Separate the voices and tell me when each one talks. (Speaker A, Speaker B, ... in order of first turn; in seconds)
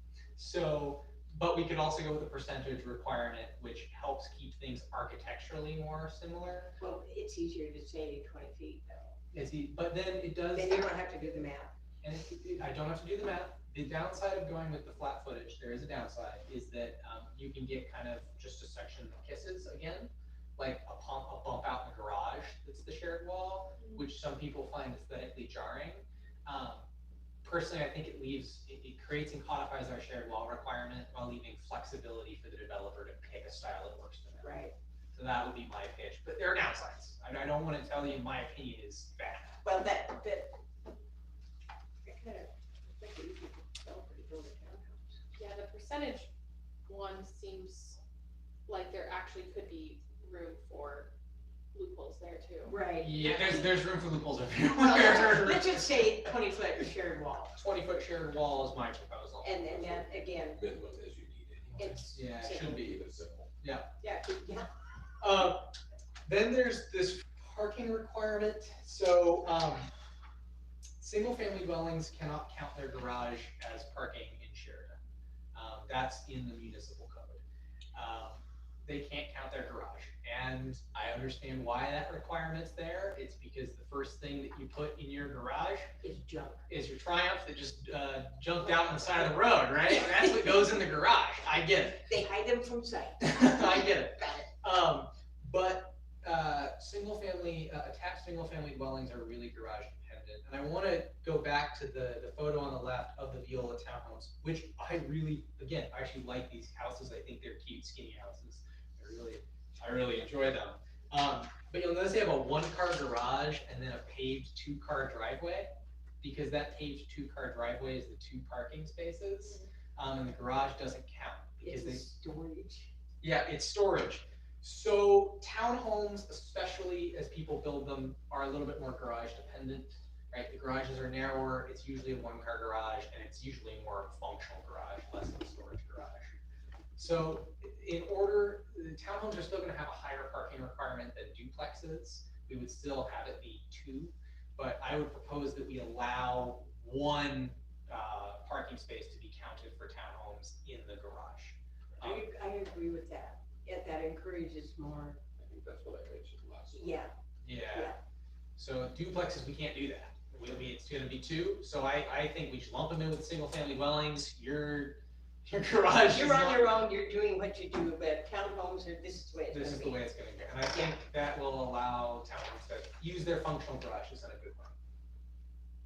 Speaker A: 0.4-6.7, 9.3-10.9, 12.0-26.9, 27.4-34.6, 35.1-39.6, 53.0-56.3, 57.6-59.6, 62.1-62.9, 63.6-63.9, 65.2-65.7, 66.2-69.9, 71.0-75.0, 75.5-77.4, 77.9-85.9, 86.7-92.0, 93.2-122.0, 123.2-136.4, 136.9-152.3, 157.4-157.9, 158.6-166.7, 169.5-174.7
Speaker B: 6.8-9.2, 10.5-11.7, 34.4-34.7, 39.6-40.5, 42.0-45.2, 52.6-53.4, 54.7-57.6, 59.4-60.6, 61.8-62.9, 64.0-64.7, 86.0-86.7, 88.6-90.8, 92.0-94.5, 121.6-122.9, 152.0-155.2, 156.7-157.1, 157.7-158.0, 166.1-170.0, 170.7-171.0
Speaker C: 23.7-24.1, 45.3-46.3, 46.9-48.0, 48.7-51.1, 51.7-53.5, 119.4-119.7
Speaker D: 59.7-63.5, 155.4-157.1